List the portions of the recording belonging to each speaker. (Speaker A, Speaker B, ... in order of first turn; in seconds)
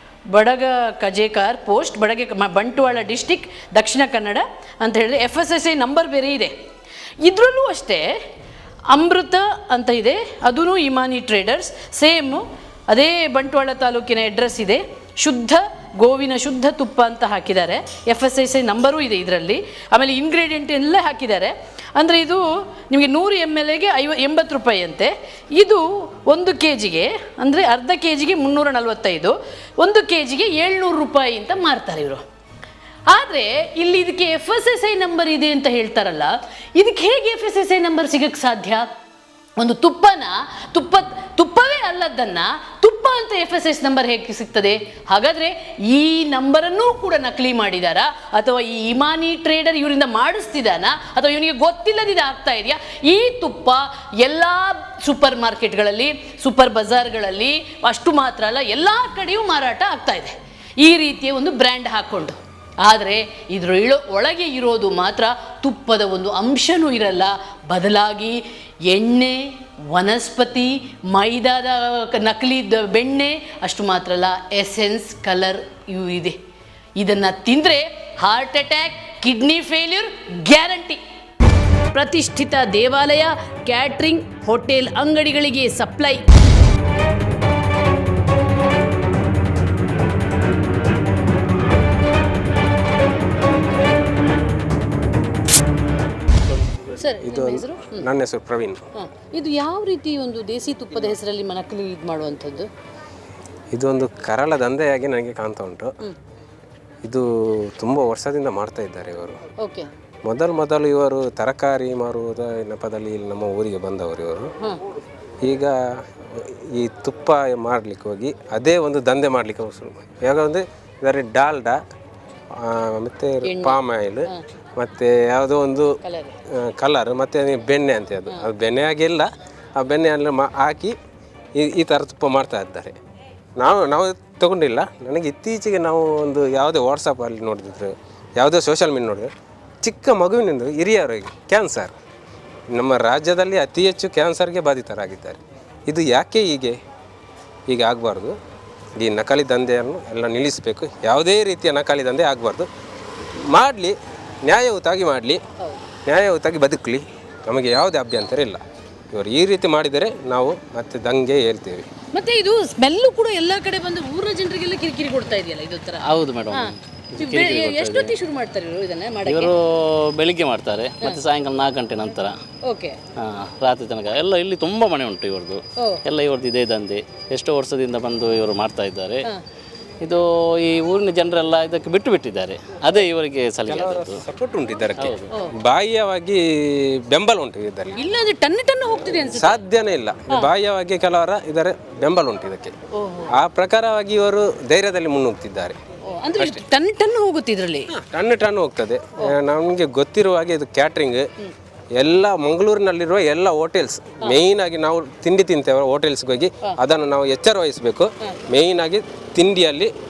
Speaker A: 0.3-6.5, 7.2-8.1, 8.9-32.2, 33.1-38.9, 39.6-76.4, 77.0-81.0, 81.9-86.2, 97.0-98.1, 99.0-102.7, 109.6-109.9, 123.4-124.4, 126.0-126.3, 162.1-169.5, 172.6-173.0, 175.8-176.0, 187.9-189.6, 192.9-193.3, 196.1-197.9
Speaker B: 97.2-98.8, 103.7-105.9, 107.0-109.4, 110.2-114.5, 115.4-115.8, 116.3-121.8, 122.6-125.9, 126.5-130.9, 131.6-133.0, 133.6-139.3, 139.8-141.9, 142.7-146.8, 147.7-148.4, 149.0-152.7, 153.5-155.4, 156.1-158.6, 159.1-161.9, 183.7-186.4, 187.1-188.0, 189.3-192.7, 193.3-195.8, 196.4-196.6, 197.9-201.2, 202.0-209.9
Speaker C: 166.0-168.1, 169.3-172.4, 173.2-179.3, 180.0-184.2, 185.0-185.3